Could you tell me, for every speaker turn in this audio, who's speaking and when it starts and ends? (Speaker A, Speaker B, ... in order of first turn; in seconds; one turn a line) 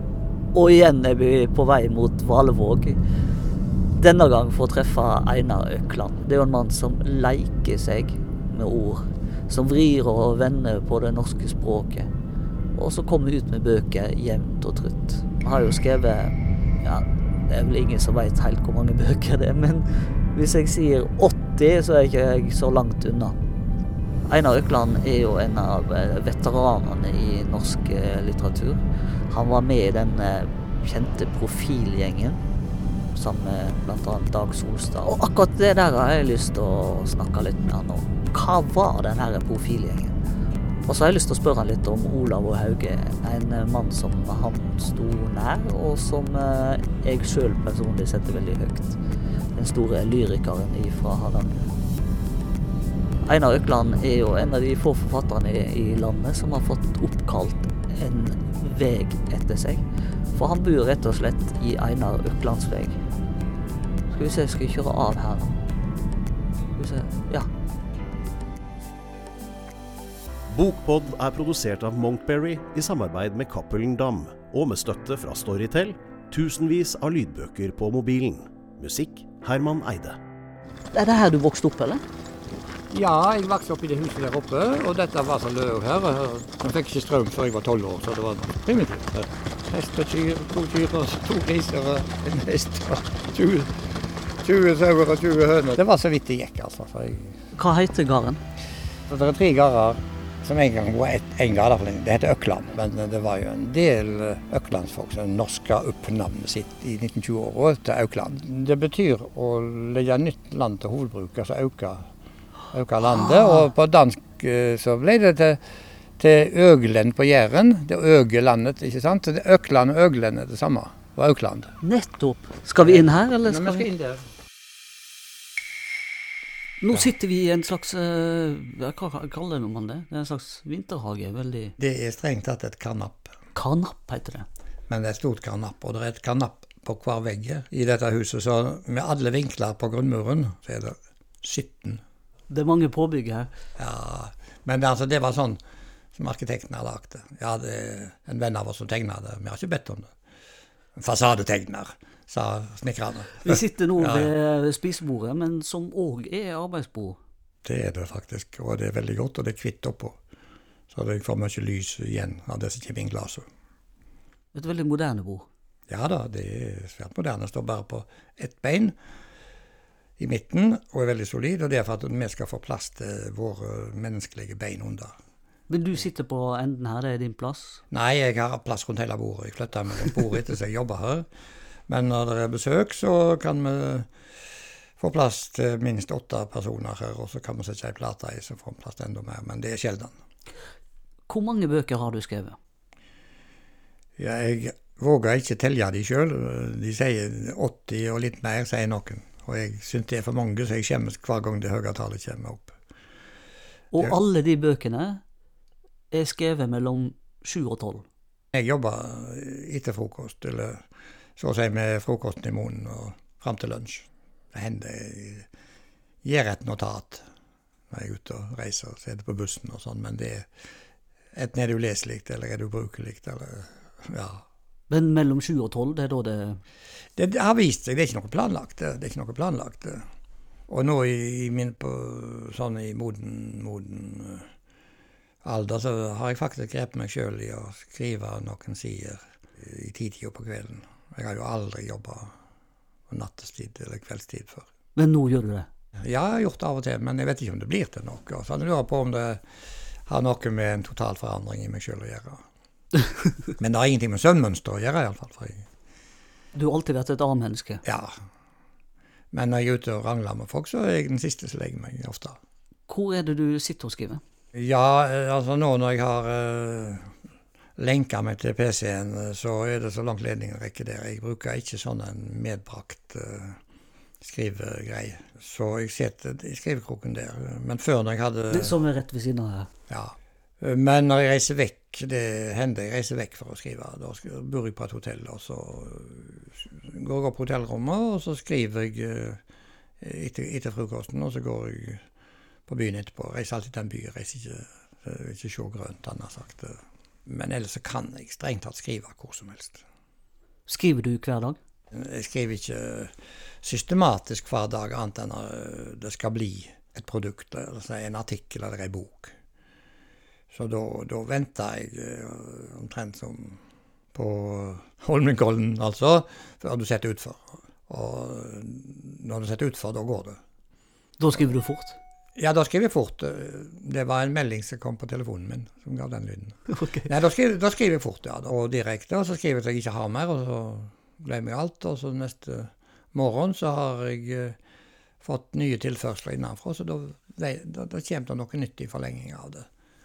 Speaker A: 0.5-3.0
Speaker A: 4.0-12.1
Speaker A: 12.7-23.4
Speaker A: 24.3-28.8
Speaker A: 29.3-32.4
Speaker A: 33.1-40.1
Speaker A: 40.8-49.0
Speaker A: 49.5-51.5
Speaker A: 53.2-59.8
Speaker A: 60.3-63.0
Speaker A: 64.1-65.6
Speaker A: 66.8-67.5
Speaker B: 70.5-80.2
Speaker A: 80.9-82.0
Speaker C: 82.9-97.4
Speaker A: 97.5-98.4
Speaker C: 99.1-112.1
Speaker C: 112.7-115.6
Speaker A: 113.2-113.6
Speaker C: 116.2-121.7
Speaker A: 121.8-123.9
Speaker C: 122.8-124.3
Speaker A: 126.8-131.7
Speaker C: 131.8-133.3
Speaker A: 133.5-134.5
Speaker C: 134.9-142.0
Speaker A: 142.5-143.5
Speaker C: 143.8-145.6
Speaker C: 146.1-150.1
Speaker C: 150.9-154.3
Speaker A: 153.4-157.2
Speaker C: 157.6-160.2
Speaker C: 160.9-163.4
Speaker A: 164.5-165.5
Speaker C: 165.9-168.9
Speaker C: 170.2-175.1
Speaker A: 175.7-177.8
Speaker C: 177.9-181.3
Speaker C: 181.9-184.1
Speaker C: 185.0-190.1
Speaker A: 191.3-192.6
Speaker C: 194.2-202.8
Speaker A: 203.9-205.2
Speaker A: 206.1-208.0
Speaker C: 208.5-210.8
Speaker C: 211.4-215.5
Speaker C: 216.2-217.2
Speaker C: 217.9-220.5
Speaker C: 221.3-224.4
Speaker A: 224.9-226.6
Speaker C: 227.2-230.0
Speaker C: 230.7-234.5
Speaker C: 235.4-242.3
Speaker C: 243.1-244.7
Speaker A: 244.9-245.7
Speaker C: 246.0-249.4
Speaker C: 250.1-252.4
Speaker C: 253.6-255.6
Speaker A: 256.5-257.8
Speaker C: 257.8-258.2
Speaker C: 259.3-262.4
Speaker A: 262.9-264.2
Speaker C: 264.5-267.1
Speaker C: 267.8-273.6
Speaker C: 274.2-278.8
Speaker A: 278.5-279.7
Speaker C: 279.9-289.4
Speaker C: 290.0-292.0
Speaker C: 292.7-299.8
Speaker A: 300.7-301.6
Speaker C: 301.9-309.3
Speaker C: 310.5-313.6
Speaker C: 314.1-320.4
Speaker A: 321.2-322.0
Speaker C: 322.4-334.6
Speaker A: 326.7-327.1
Speaker C: 335.2-339.7